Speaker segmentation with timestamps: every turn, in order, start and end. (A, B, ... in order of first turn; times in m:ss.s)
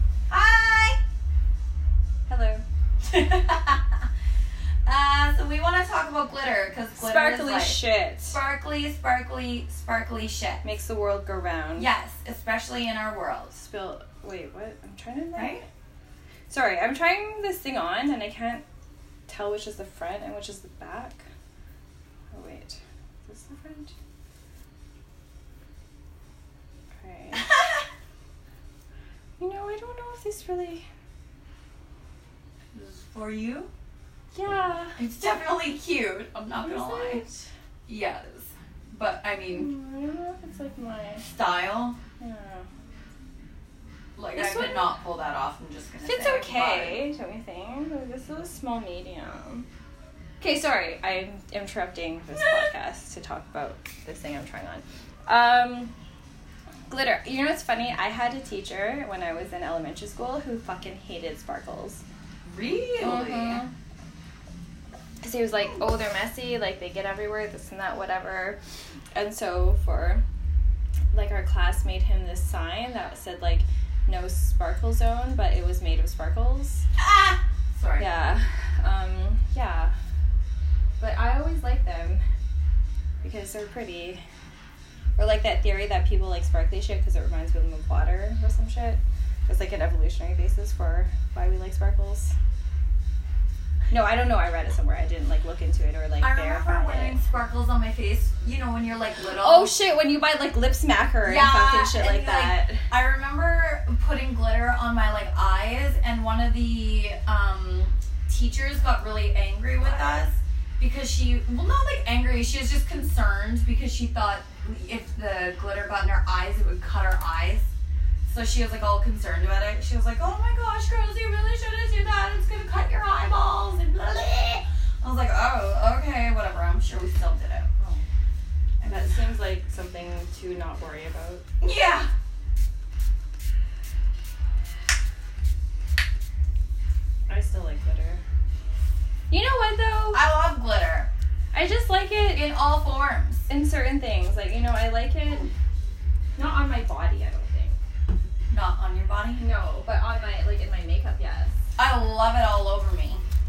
0:00.3-0:01.0 A
0:02.3-0:02.6 B
0:03.0-0:04.0 A
0:04.9-0:10.6 A
0:07.0-0:08.4 B
0:10.6-0:11.9 B
0:11.8-0:13.6 A
0:13.6-0:15.6 B
0:15.4-0:15.6 A
0:16.5-0:18.6 B
0:19.3-0:21.3 B
0:22.3-0:23.9 B
0:27.0-0:27.5 B
0:27.4-0:27.8 A
0:29.4-0:30.8 B
0:32.7-0:33.7 A
0:34.3-0:35.0 B
0:35.0-0:37.2 A
0:36.6-0:37.5 B
0:37.9-0:39.7 A
0:39.5-0:41.3 B
0:41.2-0:42.0 A
0:42.2-0:42.7 B
0:44.2-0:47.0 A
0:44.4-0:45.0 B
0:46.0-0:49.7 B
0:50.4-0:55.9 B
0:56.9-1:02.0 B
1:02.5-1:03.6 A
1:03.0-1:03.7 B
1:05.2-1:08.6 B
1:09.2-1:10.2 B
1:11.1-1:16.8 B
1:17.0-1:18.1 A
1:18.0-1:19.9 B
1:21.0-1:22.2 B
1:23.2-1:24.2 B
1:25.2-1:32.3 B
1:33.9-1:37.2 B
1:36.2-1:39.7 A
1:39.3-1:42.9 B
1:41.2-1:57.7 A
1:49.8-1:50.3 B
1:58.3-2:07.7 A
2:07.8-2:08.0 B
2:08.8-2:09.2 A
2:08.8-2:11.4 B
2:11.6-2:12.1 A
2:17.3-2:18.2 B
2:19.3-2:20.2 B
2:20.1-2:21.1 A
2:21.5-2:22.4 B
2:22.3-2:23.5 A
2:23.5-2:25.5 B
2:26.4-2:27.8 B
2:28.5-2:29.4 A
2:29.4-2:31.6 B
2:31.8-2:33.2 A